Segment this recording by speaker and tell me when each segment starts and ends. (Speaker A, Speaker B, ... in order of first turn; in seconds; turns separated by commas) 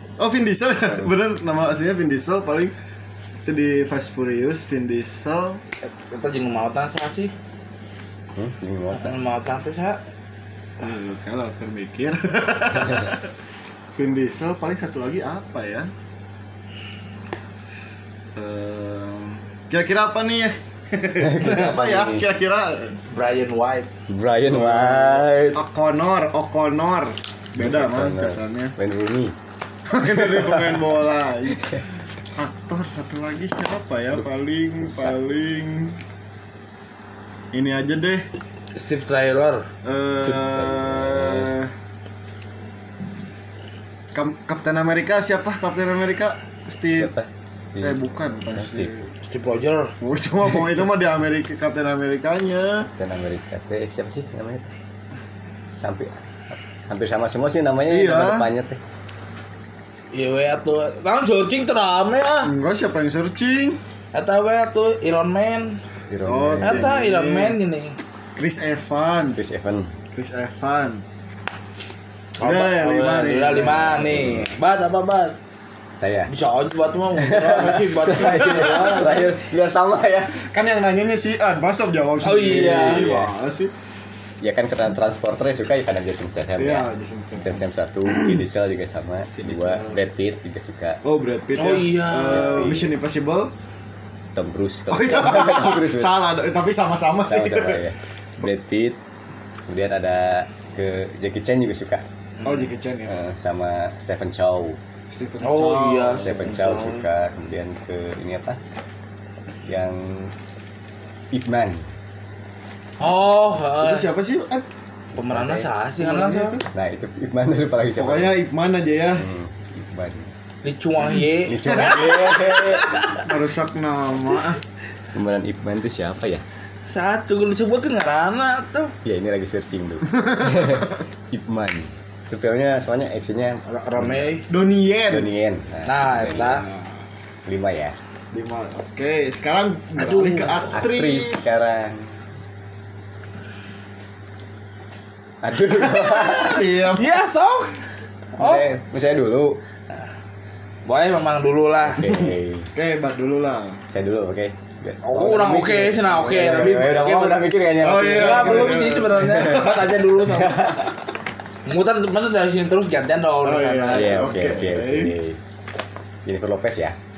Speaker A: 0.2-2.7, Speaker A: 3.5-5.6, Speaker B: 5.9-7.3, Speaker C: 8.3-9.2, Speaker B: 8.9-10.0, Speaker A: 10.8-13.3, Speaker A: 13.9-15.9, Speaker A: 18.4-23.0, Speaker C: 21.2-22.2, Speaker B: 21.4-21.8, Speaker B: 23.1-23.9, Speaker C: 24.1-25.6, Speaker A: 24.5-28.8, Speaker C: 27.6-29.4, Speaker A: 29.9-31.8, Speaker C: 30.3-30.9, Speaker A: 32.3-36.0, Speaker C: 34.9-35.1, Speaker A: 37.5-38.3, Speaker B: 38.7-39.7, Speaker A: 39.8-41.7, Speaker C: 40.2-41.5, Speaker A: 44.1-47.1, Speaker C: 47.0-49.0, Speaker A: 47.8-49.1, Speaker B: 49.2-50.0, Speaker A: 50.0-52.9, Speaker C: 53.0-54.7, Speaker C: 55.8-58.8, Speaker A: 57.9-58.5, Speaker B: 60.1-62.5, Speaker A: 62.4-63.8, Speaker B: 64.1-65.8, Speaker C: 66.1-66.9, Speaker A: 66.2-67.6, Speaker B: 66.6-68.0, Speaker A: 68.4-69.4, Speaker C: 69.4-69.9, Speaker A: 70.1-71.0, Speaker B: 72.4-75.4, Speaker A: 72.4-74.1, Speaker C: 73.7-74.5, Speaker C: 76.0-76.3, Speaker B: 76.3-79.2, Speaker C: 77.2-80.5, Speaker A: 78.5-78.9, Speaker A: 80.4-83.7, Speaker B: 82.2-83.2, Speaker C: 82.7-83.3, Speaker C: 84.4-86.9, Speaker A: 86.6-87.6, Speaker C: 87.4-91.0, Speaker A: 89.4-90.0, Speaker A: 91.0-93.5, Speaker B: 91.5-92.7, Speaker C: 92.2-93.0, Speaker C: 94.3-96.1, Speaker A: 94.9-97.8, Speaker C: 97.3-99.0, Speaker C: 99.7-102.0, Speaker A: 102.4-103.2, Speaker C: 103.1-104.8, Speaker A: 105.1-106.3, Speaker B: 105.4-107.0, Speaker C: 106.2-108.6, Speaker C: 109.7-110.3, Speaker C: 111.3-111.8, Speaker B: 113.0-114.1, Speaker A: 113.8-114.7, Speaker B: 115.2-116.6, Speaker C: 115.2-115.7, Speaker A: 116.0-116.7, Speaker C: 116.7-118.4, Speaker A: 118.0-119.3, Speaker C: 119.2-120.3, Speaker B: 120.6-123.3, Speaker C: 121.5-122.9, Speaker A: 123.2-124.6, Speaker C: 125.1-126.4, Speaker B: 126.9-128.9, Speaker C: 129.0-134.4, Speaker A: 130.1-130.9, Speaker B: 133.7-134.5, Speaker A: 134.5-135.3, Speaker C: 135.1-136.7, Speaker B: 135.8-136.7, Speaker A: 136.5-136.8, Speaker C: 137.5-138.0, Speaker A: 138.3-141.6, Speaker B: 140.0-140.7, Speaker C: 140.7-142.1, Speaker C: 145.4-146.7, Speaker A: 145.8-147.2, Speaker B: 146.9-147.8, Speaker B: 148.4-148.7, Speaker C: 148.4-149.6, Speaker B: 150.8-152.1, Speaker C: 151.9-152.7, Speaker A: 152.1-153.8, Speaker C: 153.9-160.9, Speaker B: 155.0-157.5, Speaker A: 157.8-159.9, Speaker B: 158.0-160.8, Speaker B: 161.7-164.4, Speaker A: 163.4-165.2, Speaker C: 163.9-165.4, Speaker C: 166.3-167.0